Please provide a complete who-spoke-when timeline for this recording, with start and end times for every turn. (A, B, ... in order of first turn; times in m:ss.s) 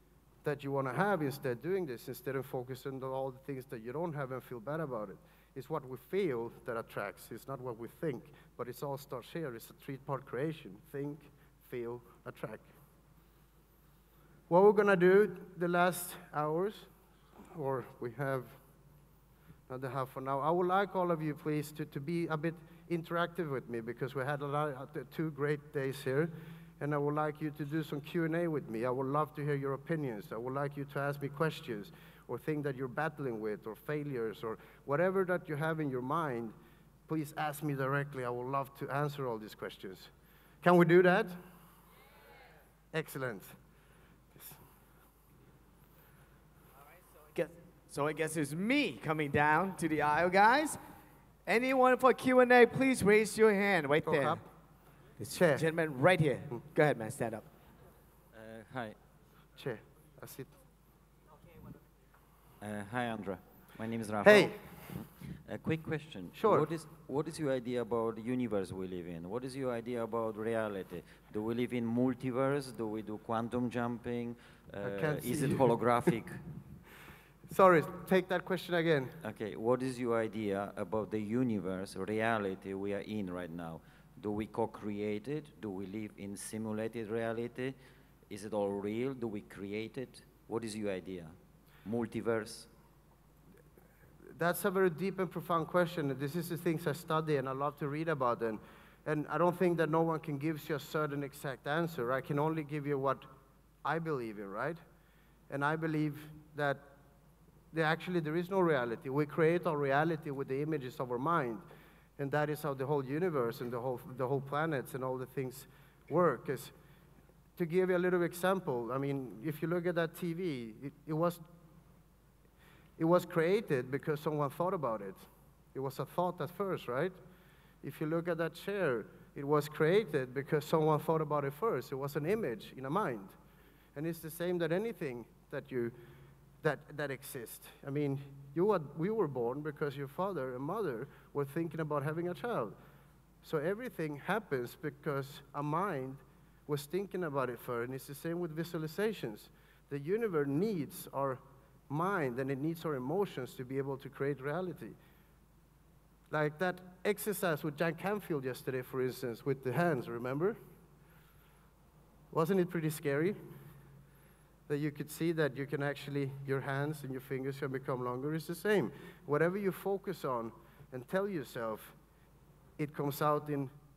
0:00.4-0:12.7 A
0:14.5-0:16.9 A
0:17.5-0:18.6 A
0:19.7-0:36.5 A
0:37.1-0:40.1 A
0:40.6-0:41.4 A
0:42.9-0:43.5 A
0:47.3-0:50.8 B
0:51.5-0:54.4 B
0:54.0-0:54.4 A
0:55.2-0:57.5 B
0:55.3-0:55.6 A
0:58.3-0:59.0 C
0:59.6-1:00.5 A
1:02.6-1:16.4 C
1:04.2-1:05.0 A
1:06.3-1:06.7 A
1:14.8-1:16.2 A
1:17.5-1:19.2 A
1:19.2-1:27.8 C
1:28.3-1:32.7 C
1:34.4-1:43.3 A
1:43.8-1:44.8 A
1:45.5-1:46.8 A
1:47.7-1:51.6 A
1:52.2-1:56.7 A
1:57.6-2:01.4 A
2:03.0-2:07.2 A
2:07.8-2:13.3 A
2:14.0-2:16.0 A
2:16.6-2:22.8 A
2:23.4-2:35.0 A
2:36.3-2:40.6 A
2:42.3-2:43.4 A
2:44.7-2:52.0 A
2:52.8-2:53.7 A